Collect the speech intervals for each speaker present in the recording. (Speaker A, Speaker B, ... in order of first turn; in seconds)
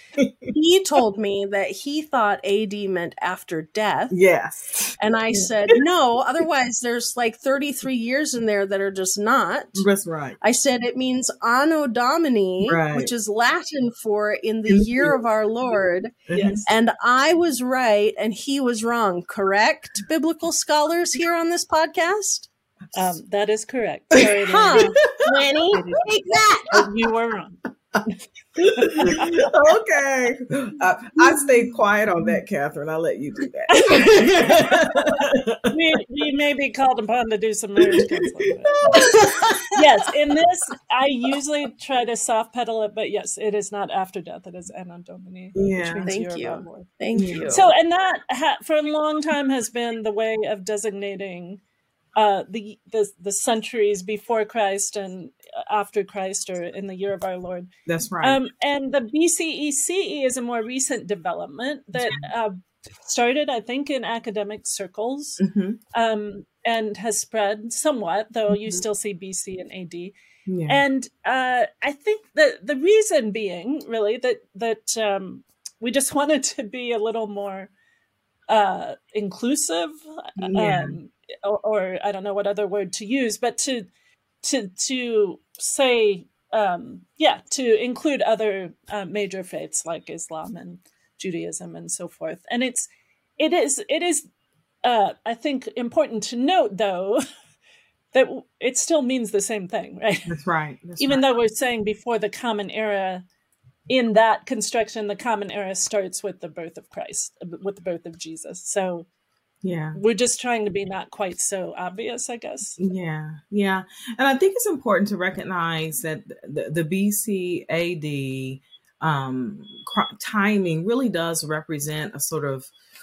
Speaker A: 0.2-0.5, 4.1-5.8, 9.8-10.4, 12.6-13.1, 14.7-15.2, 16.3-16.6, 24.8-25.2, 28.6-35.7, 38.7-39.7, 45.5-46.1, 47.1-47.6, 57.9-58.4, 62.0-62.2, 65.4-65.8, 68.5-68.8, 70.5-70.8, 80.4-81.0, 100.3-101.2, 109.6-110.0, 112.8-122.7
Speaker B: 0.5-4.2, 5.0-9.9, 10.4-22.5, 24.5-26.8, 39.0-39.6, 46.0-47.7
Speaker C: 16.3-16.6, 22.9-25.1, 26.7-28.2, 28.8-29.3, 33.7-34.7, 35.7-38.8, 39.7-46.9, 47.5-51.6, 52.2-57.7, 58.2-70.2, 70.7-77.7, 78.5-83.9, 84.4-94.3, 94.8-97.2, 98.1-100.4, 101.0-103.2, 103.9-109.1, 109.9-112.8